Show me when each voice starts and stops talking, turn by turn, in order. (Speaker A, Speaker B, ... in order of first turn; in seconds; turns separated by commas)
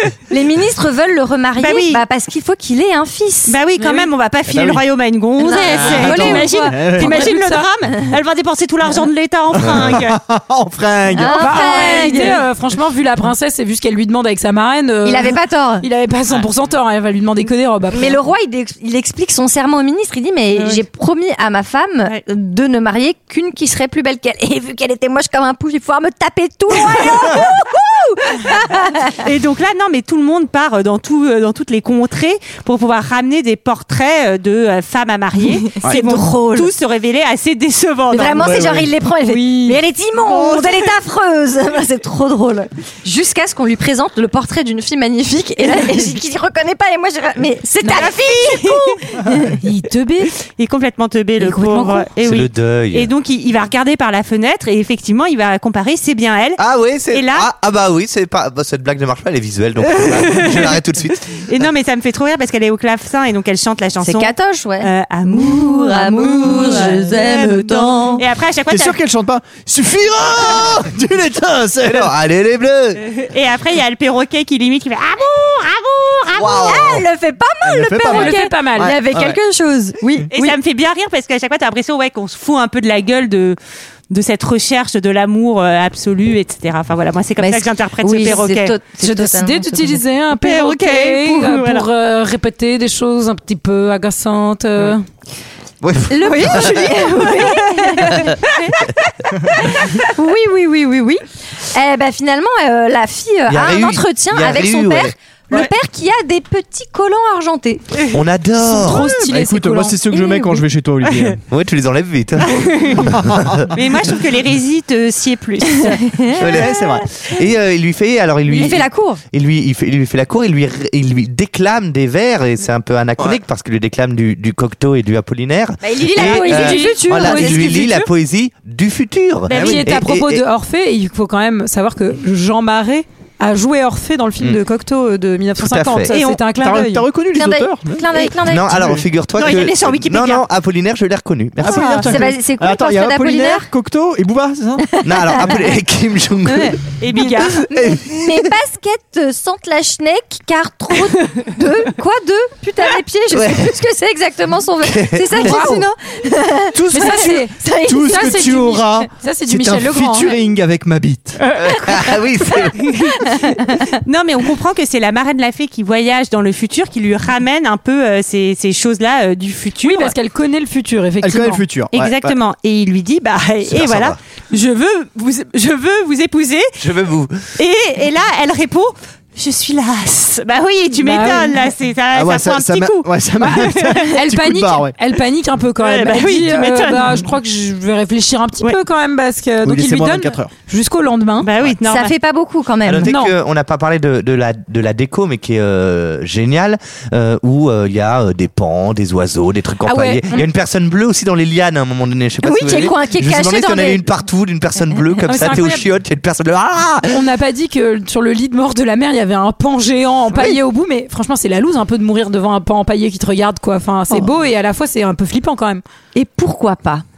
Speaker A: 0.3-3.5, Speaker B: 1.6-2.0, Speaker B: 3.5-10.2, Speaker C: 3.8-4.1, Speaker D: 4.5-4.8, Speaker A: 5.4-7.0, Speaker D: 5.7-7.1, Speaker C: 6.3-7.7, Speaker D: 9.6-11.5, Speaker A: 11.1-12.4, Speaker C: 11.3-18.2, Speaker B: 11.8-12.3, Speaker A: 15.0-15.8, Speaker A: 17.9-29.2, Speaker B: 29.2-38.5, Speaker A: 35.7-36.7, Speaker A: 38.1-49.6, Speaker D: 38.4-38.9, Speaker C: 39.2-39.8, Speaker B: 40.3-40.8, Speaker B: 47.9-49.0, Speaker C: 49.6-50.3, Speaker B: 50.5-57.5, Speaker C: 51.4-52.1, Speaker E: 52.2-53.1, Speaker E: 56.6-61.5, Speaker B: 59.9-60.8, Speaker B: 61.4-69.0, Speaker A: 64.0-68.2, Speaker D: 68.7-72.1, Speaker E: 71.8-73.0, Speaker B: 73.0-76.8, Speaker D: 76.3-77.0, Speaker A: 76.6-80.5, Speaker D: 77.6-79.3, Speaker C: 78.0-79.0, Speaker B: 80.3-83.6, Speaker B: 84.1-88.7, Speaker A: 87.4-90.0, Speaker C: 88.9-95.0, Speaker B: 90.3-91.9, Speaker D: 95.8-96.9, Speaker A: 96.1-98.3, Speaker B: 97.3-98.0, Speaker A: 99.5-107.8, Speaker E: 103.5-105.1, Speaker E: 108.1-109.1, Speaker C: 108.6-110.6, Speaker D: 108.9-111.4, Speaker E: 111.5-113.7, Speaker B: 112.5-113.0, Speaker D: 113.0-113.6, Speaker B: 113.7-116.0, Speaker A: 115.9-116.4, Speaker E: 116.4-130.4, Speaker D: 116.4-117.0, Speaker A: 118.5-119.2, Speaker A: 125.8-128.0, Speaker C: 126.1-128.0, Speaker B: 129.5-129.9, Speaker D: 129.5-129.8, Speaker C: 129.5-137.1, Speaker E: 135.6-136.1, Speaker B: 136.1-136.4, Speaker D: 136.5-139.0, Speaker A: 137.3-138.8, Speaker E: 138.4-142.0, Speaker B: 139.4-140.4, Speaker D: 141.6-144.8, Speaker B: 141.7-142.0, Speaker A: 142.0-143.7, Speaker A: 144.9-145.7, Speaker E: 145.0-148.4, Speaker A: 146.5-146.8, Speaker B: 147.0-147.6, Speaker A: 147.4-158.3, Speaker E: 153.3-153.8, Speaker E: 154.8-155.6, Speaker C: 155.4-155.9, Speaker D: 156.7-161.4, Speaker C: 156.9-160.3, Speaker E: 161.5-163.0, Speaker A: 162.8-163.8, Speaker B: 164.0-170.1, Speaker C: 169.8-171.6, Speaker D: 171.2-172.3, Speaker B: 171.9-176.7, Speaker E: 173.7-174.2, Speaker E: 176.8-177.3, Speaker B: 177.6-184.1, Speaker C: 180.9-181.6, Speaker D: 182.1-185.0, Speaker C: 183.4-191.5, Speaker B: 185.8-187.3, Speaker D: 189.6-190.5, Speaker B: 191.4-192.1, Speaker A: 191.8-193.1, Speaker E: 192.8-207.2, Speaker C: 193.0-193.3, Speaker C: 199.8-200.4, Speaker A: 202.4-204.1, Speaker C: 205.3-205.8, Speaker C: 207.1-215.8, Speaker E: 210.3-210.6, Speaker A: 216.1-217.0